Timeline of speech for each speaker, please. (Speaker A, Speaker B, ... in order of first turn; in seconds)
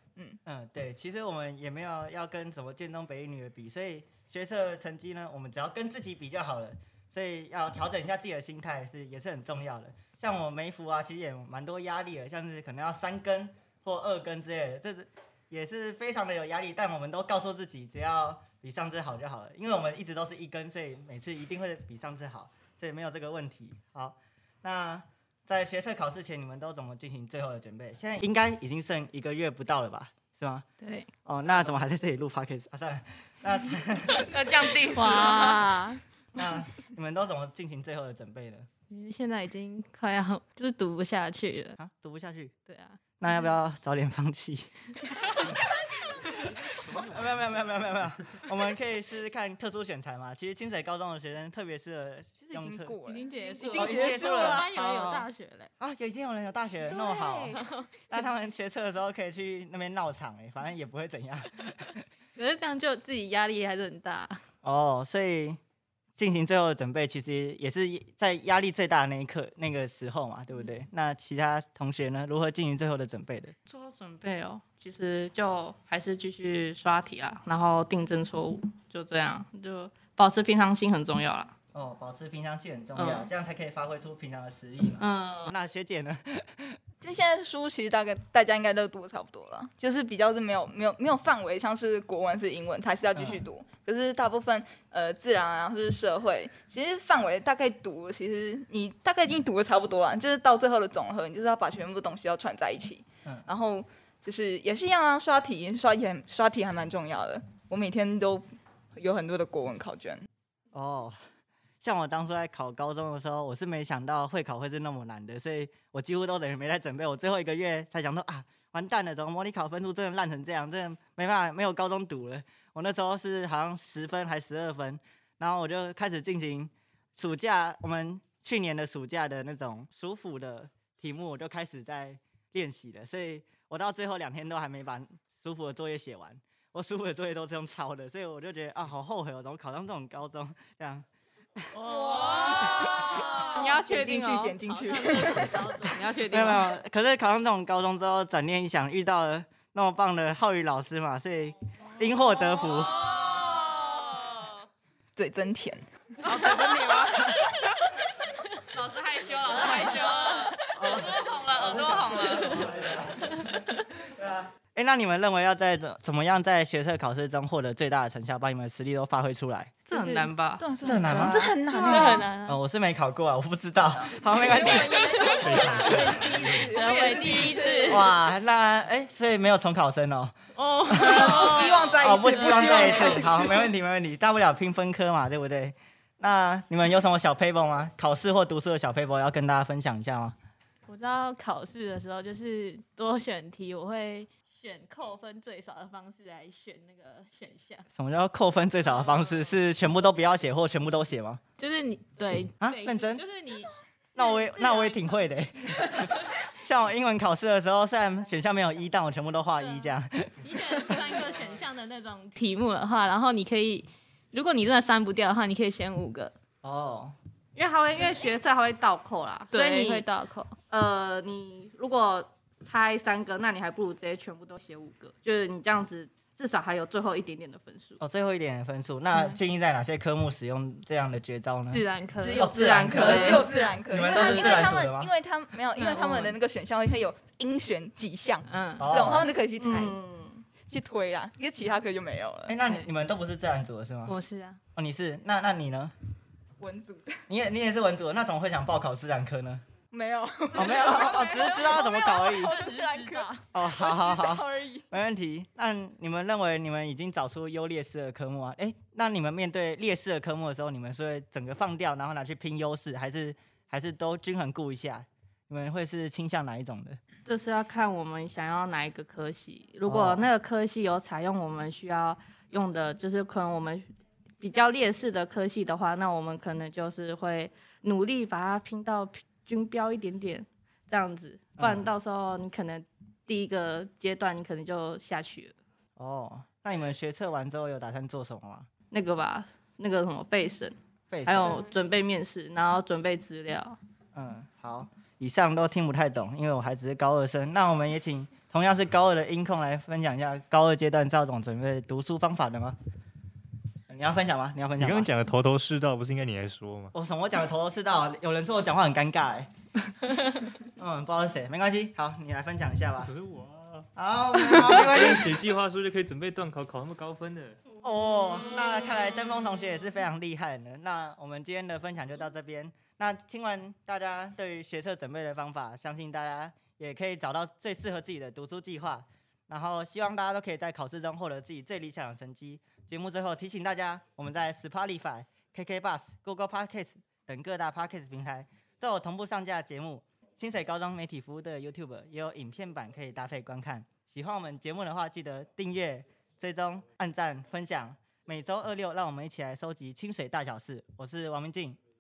Speaker A: 0.5-30.7, 31.2-34.4, 36.3-38.7, 41.8-42.5, 43.2-44.7, 46.2-53.0, 53.7-62.0, 64.6-65.6, 66.2-73.5, 81.7-86.8, 93.2-93.4, 110.7-111.2, 111.8-141.1, 146.3-153.1, 156.2-157.5, 160.7-169.8, 170.8-176.0, 177.9-180.3, 180.9-190.4, 197.9-201.4, 202.6-203.2, 204.2-211.4, 216.6-217.2, 228.0-235.1, 238.8-239.3, 242.5-244.2, 244.8-245.9, 247.3-249.6, 250.5-252.6, 253.5-267.0, 269.9-270.3, 281.6-281.9, 286.0-288.7, 291.1-291.6, 294.1-302.8, 303.9-305.1, 306.9-309.5, 310.7-313.1, 314.0-315.4, 317.8-351.8
Speaker B: 30.8-31.1, 34.9-36.0, 38.9-41.8, 42.7-43.0, 53.1-55.7, 57.6-57.9, 62.4-64.4, 141.9-142.5, 144.8-145.8, 171.7-172.6, 176.7-178.1, 180.6-181.9, 182.4-183.2, 190.9-197.9, 201.6-205.3, 210.4-216.3, 219.5-220.6, 231.7-232.5, 234.2-234.6, 235.8-236.3, 238.4-239.0, 244.1-244.6, 252.4-253.4
Speaker C: 34.3-35.7, 73.7-81.5, 83.0-83.3, 85.0-85.5, 141.8-146.7, 152.8-154.6, 156.2-157.7, 158.7-162.5, 169.9-171.4, 175.9-176.3, 217.5-220.0, 220.7-228.0, 232.5-233.7, 239.6-240.5, 267.2-273.9, 274.4-285.6, 288.9-293.8
Speaker D: 52.4-54.7, 56.8-57.7, 87.0-110.3, 142.1-142.6, 143.1-145.7, 155.2-155.9, 169.9-172.3, 174.2-178.2, 181.0-183.7, 232.2-240.0, 240.6-242.6, 246.6-247.2, 249.9-254.9
Speaker E: 175.4-176.7, 304.8-306.9, 313.0-313.9, 314.4-317.6